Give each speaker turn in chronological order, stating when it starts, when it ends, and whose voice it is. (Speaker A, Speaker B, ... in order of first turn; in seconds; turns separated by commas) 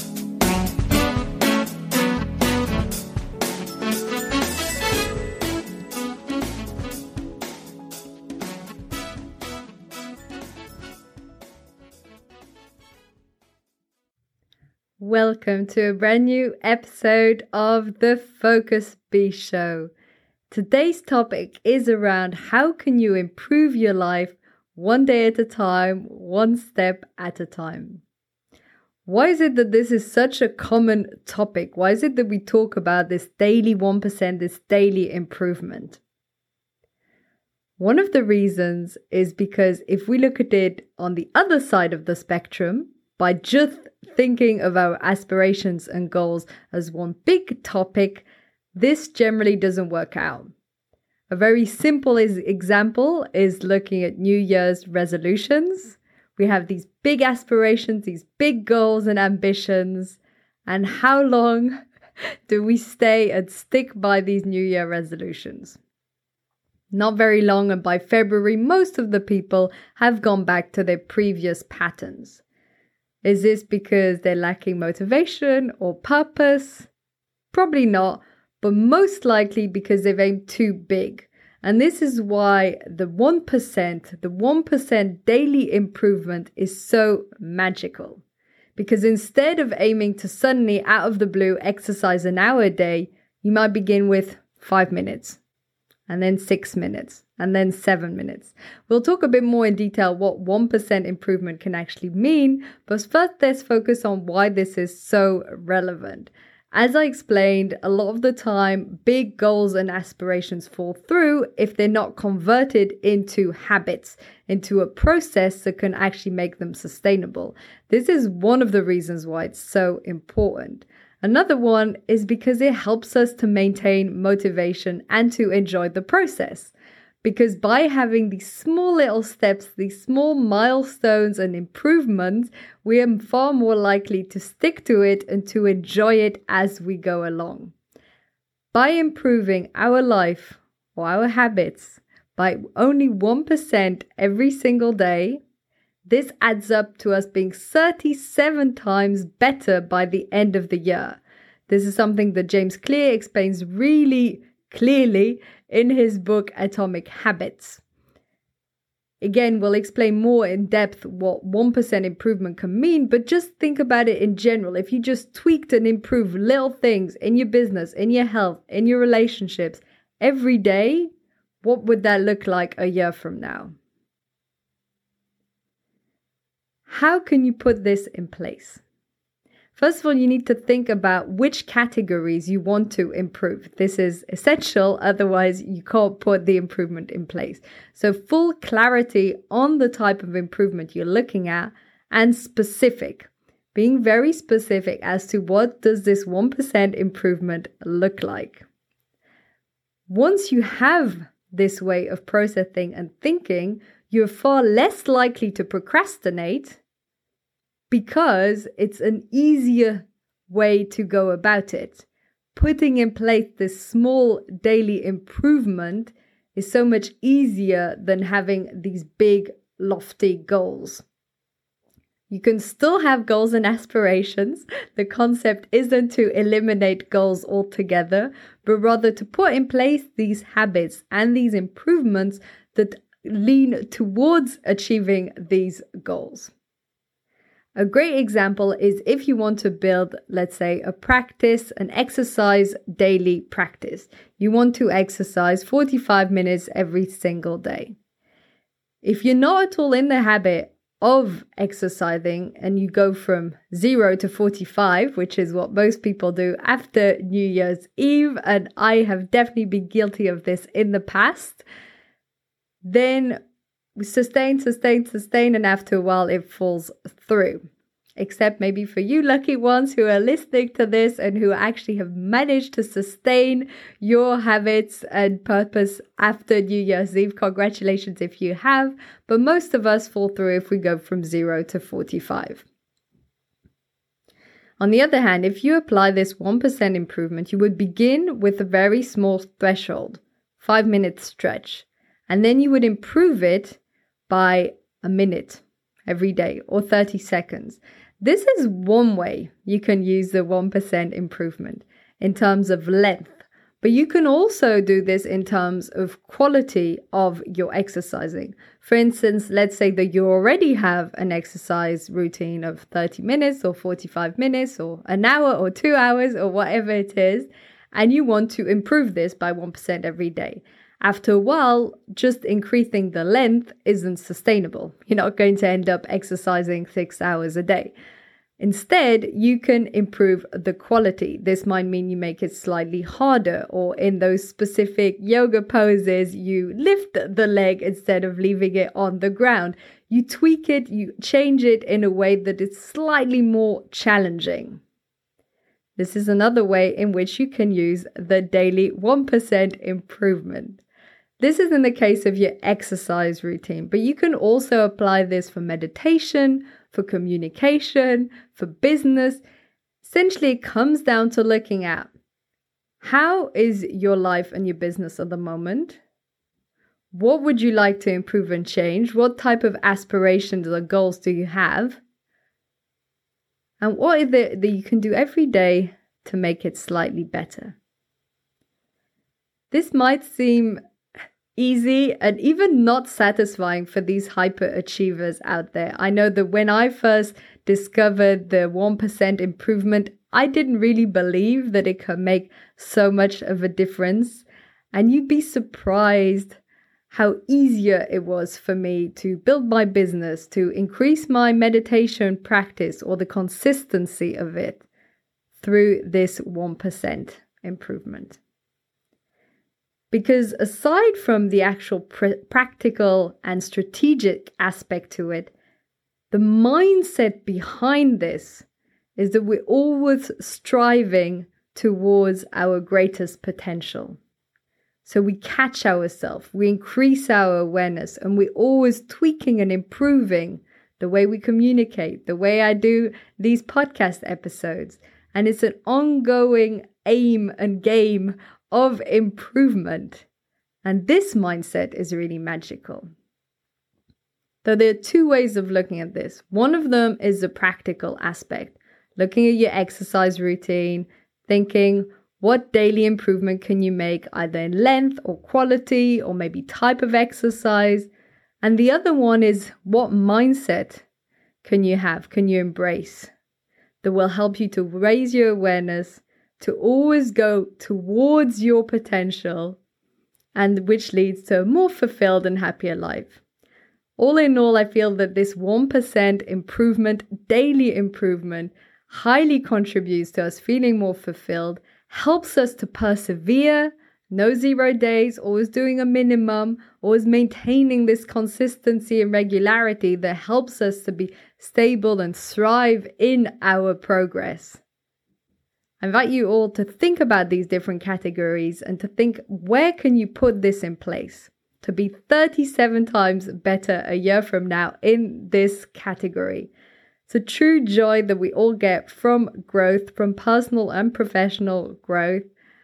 Speaker A: 15.0-19.9, Speaker A: 20.5-28.0, Speaker A: 29.1-36.0, Speaker A: 37.8-50.5, Speaker A: 51.3-61.8, Speaker A: 62.5-65.8, Speaker A: 66.9-72.4, Speaker A: 73.2-76.9, Speaker A: 77.5-88.2, Speaker A: 88.8-95.4, Speaker A: 96.1-126.7, Speaker A: 127.2-137.7, Speaker A: 138.7-145.4, Speaker A: 146.1-157.8, Speaker A: 159.2-171.1, Speaker A: 171.6-173.8, Speaker A: 176.9-178.8, Speaker A: 179.8-198.7, Speaker A: 200.1-206.8, Speaker A: 207.9-221.0, Speaker A: 222.3-236.5, Speaker A: 237.8-248.0, Speaker A: 249.0-261.6, Speaker A: 262.8-263.4, Speaker A: 264.0-267.6, Speaker A: 268.2-282.6, Speaker A: 284.8-327.9, Speaker A: 328.6-344.8, Speaker A: 346.0-350.8, Speaker A: 351.4-359.4, Speaker A: 360.0-362.1, Speaker A: 363.0-366.0, Speaker A: 367.1-372.0, Speaker A: 373.8-377.8, Speaker A: 379.7-380.8, Speaker A: 381.6-396.6, Speaker A: 397.1-404.8, Speaker A: 405.6-408.4, Speaker A: 410.1-415.5, Speaker A: 416.3-418.6, Speaker A: 419.2-424.2, Speaker A: 425.0-440.2, Speaker A: 440.8-443.1, Speaker A: 444.6-458.1, Speaker A: 458.6-461.0, Speaker A: 461.6-463.3, Speaker A: 464.0-469.8, Speaker A: 470.6-473.4, Speaker A: 474.2-494.8, Speaker A: 496.0-506.7, Speaker A: 507.3-512.5